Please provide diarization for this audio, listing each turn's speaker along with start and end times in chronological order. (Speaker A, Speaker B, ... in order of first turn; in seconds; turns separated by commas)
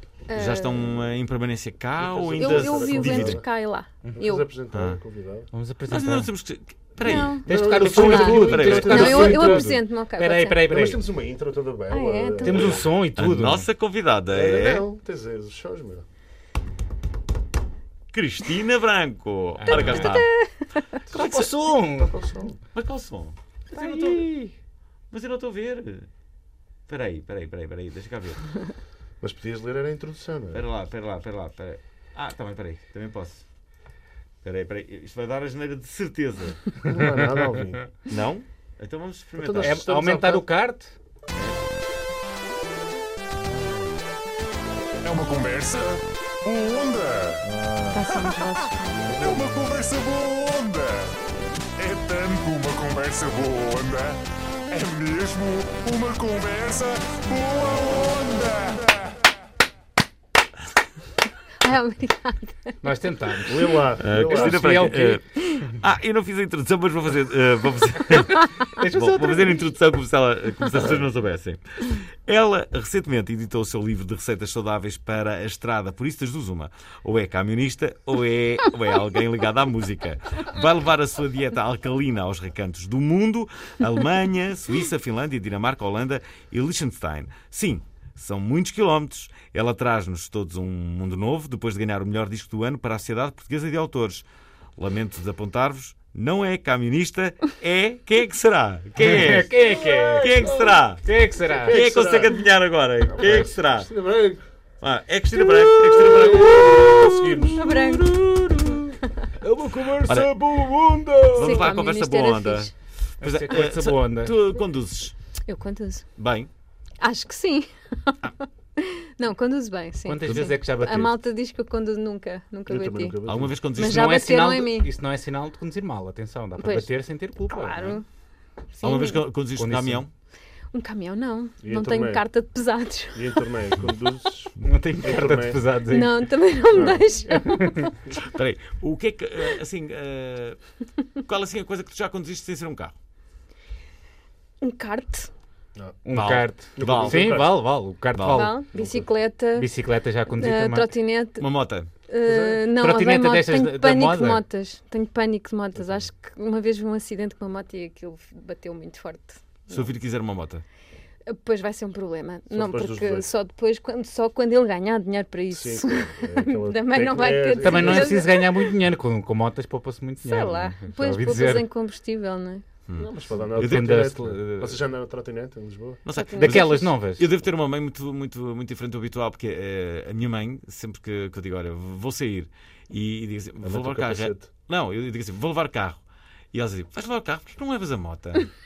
Speaker A: 0.3-1.0, Speaker B: 0.3-3.4, Speaker C: 2.0-3.5, Speaker A: 2.4-4.5, Speaker C: 4.2-5.5, Speaker B: 4.7-5.0, Speaker D: 5.5-6.3, Speaker B: 5.9-9.5, Speaker A: 7.0-10.6, Speaker C: 7.0-9.8, Speaker D: 7.4-11.0, Speaker C: 10.7-12.8, Speaker A: 11.9-12.7, Speaker D: 12.4-13.7, Speaker B: 12.6-14.8, Speaker C: 14.3-16.0, Speaker B: 18.1-20.3, Speaker D: 19.6-20.1, Speaker A: 19.7-21.0, Speaker B: 21.1-21.5, Speaker D: 21.1-22.1, Speaker C: 21.9-22.6, Speaker B: 22.7-24.2, Speaker D: 23.7-24.5, Speaker B: 25.1-26.1, Speaker B: 26.9-28.4, Speaker C: 29.2-30.6, Speaker B: 30.5-33.4, Speaker B: 34.4-36.7, Speaker C: 36.8-37.9, Speaker B: 38.1-39.8, Speaker C: 39.4-40.5, Speaker D: 39.6-40.9, Speaker B: 41.3-41.6, Speaker E: 45.0-47.4, Speaker C: 47.4-48.1, Speaker A: 47.9-49.1, Speaker C: 49.0-49.6, Speaker E: 49.1-51.1, Speaker E: 51.8-59.1, Speaker A: 61.6-62.8, Speaker D: 62.8-65.2, Speaker C: 63.4-65.0, Speaker B: 64.0-94.2, Speaker D: 68.7-69.6, Speaker B: 94.8-99.5, Speaker D: 99.0-101.8, Speaker C: 99.5-102.4, Speaker B: 100.1-101.1, Speaker B: 101.6-103.9, Speaker C: 103.1-104.4, Speaker B: 104.8-107.9, Speaker C: 105.7-107.7, Speaker D: 106.3-111.7, Speaker A: 107.5-108.1, Speaker B: 110.0-110.3, Speaker B: 111.3-115.1, Speaker A: 111.4-112.7, Speaker D: 113.2-114.3, Speaker A: 115.5-116.1, Speaker B: 116.2-116.5, Speaker A: 117.0-123.2, Speaker D: 120.0-121.1, Speaker C: 122.7-123.6, Speaker B: 123.2-124.2, Speaker A: 123.7-124.9, Speaker D: 123.8-128.0, Speaker A: 126.6-126.9, Speaker A: 127.5-128.0, Speaker A: 128.7-129.2, Speaker B: 128.8-130.1, Speaker D: 129.5-130.0, Speaker A: 130.7-133.5, Speaker C: 131.6-132.2, Speaker C: 133.1-135.6, Speaker D: 134.6-136.2, Speaker A: 135.9-138.2, Speaker C: 136.7-137.2, Speaker D: 137.3-137.9, Speaker B: 138.2-140.6, Speaker B: 141.2-142.9, Speaker A: 144.6-145.3, Speaker D: 146.0-148.6, Speaker B: 146.1-147.5, Speaker C: 146.7-147.6, Speaker B: 148.1-148.5, Speaker A: 148.3-149.7, Speaker C: 148.7-149.1, Speaker D: 149.5-150.9, Speaker A: 150.3-151.4, Speaker B: 151.4-151.9, Speaker A: 152.1-159.8, Speaker C: 152.2-152.6, Speaker D: 152.7-154.4, Speaker C: 155.7-156.0, Speaker B: 159.7-160.6, Speaker A: 161.3-168.7, Speaker C: 162.5-163.3, Speaker C: 165.5-168.2, Speaker D: 167.6-171.7, Speaker A: 170.2-172.6, Speaker B: 172.9-174.1, Speaker C: 173.0-176.0, Speaker D: 173.5-174.8, Speaker B: 176.0-186.0, Speaker A: 176.1-176.8, Speaker D: 176.4-177.2, Speaker C: 183.6-184.5, Speaker B: 186.5-188.5